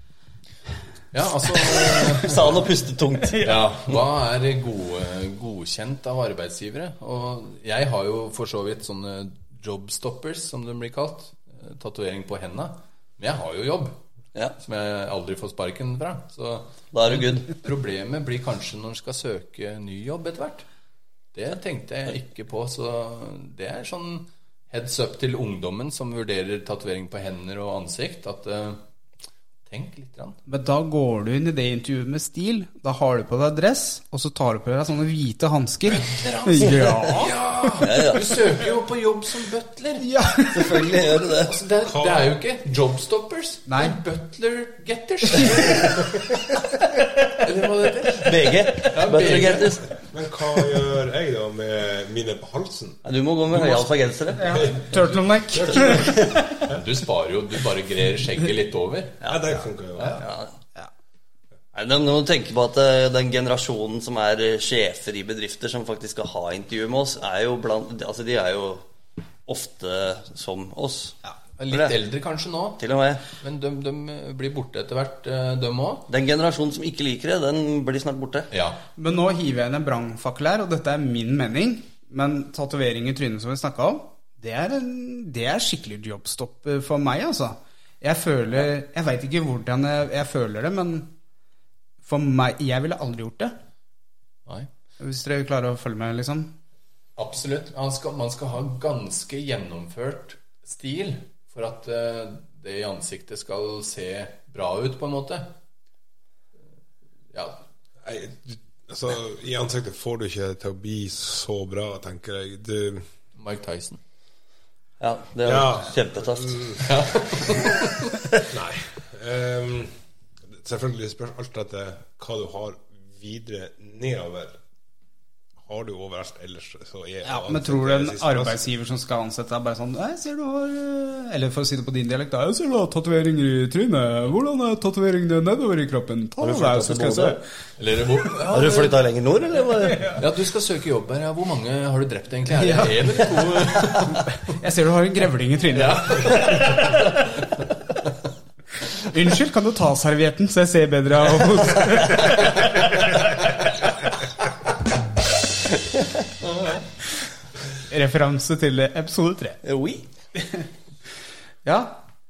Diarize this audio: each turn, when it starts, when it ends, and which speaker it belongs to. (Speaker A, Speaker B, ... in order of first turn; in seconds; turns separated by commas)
Speaker A: 1.1-2.7, Speaker B: 1.7-3.6, Speaker C: 3.3-3.7, Speaker A: 3.4-14.0, Speaker A: 14.6-20.6, Speaker B: 16.9-17.5, Speaker A: 21.3-28.8, Speaker A: 29.7-30.4, Speaker C: 30.5-37.7, Speaker A: 35.9-40.1, Speaker B: 37.8-38.4, Speaker C: 40.0-40.9, Speaker B: 40.5-41.5, Speaker A: 41.5-46.1, Speaker D: 41.9-42.3, Speaker C: 43.7-44.0, Speaker A: 47.4-49.8, Speaker B: 48.2-49.9, Speaker D: 50.1-53.0, Speaker B: 53.0-54.7, Speaker C: 54.4-56.4, Speaker D: 55.6-55.9, Speaker A: 55.8-56.1, Speaker B: 55.9-56.1, Speaker A: 56.6-59.2, Speaker B: 59.2-59.5, Speaker D: 59.2-60.2, Speaker B: 60.0-60.5, Speaker B: 61.7-68.8, Speaker B: 69.5-71.2, Speaker A: 71.6-72.8, Speaker B: 72.8-73.2, Speaker A: 73.4-76.1, Speaker B: 76.1-78.5, Speaker A: 78.5-78.8, Speaker C: 79.0-91.1, Speaker C: 92.0-93.5, Speaker C: 95.0-96.5, Speaker A: 97.2-105.5, Speaker A: 107.3-107.6, Speaker D: 108.0-113.1, Speaker A: 113.3-114.0, Speaker B: 115.0-116.5, Speaker D: 115.4-116.9, Speaker A: 116.8-118.1, Speaker D: 118.5-119.9, Speaker D: 120.5-124.6, Speaker D: 125.6-128.6, Speaker C: 127.2-137.4, Speaker B: 136.4-137.4, Speaker A: 137.8-139.0, Speaker B: 138.5-140.2, Speaker C: 139.9-140.2, Speaker A: 140.1-144.2, Speaker C: 142.5-143.1, Speaker C: 144.5-146.9, Speaker A: 145.7-147.2, Speaker C: 149.1-152.9, Speaker C: 157.9-159.6, Speaker B: 159.6-160.1, Speaker C: 161.7-162.0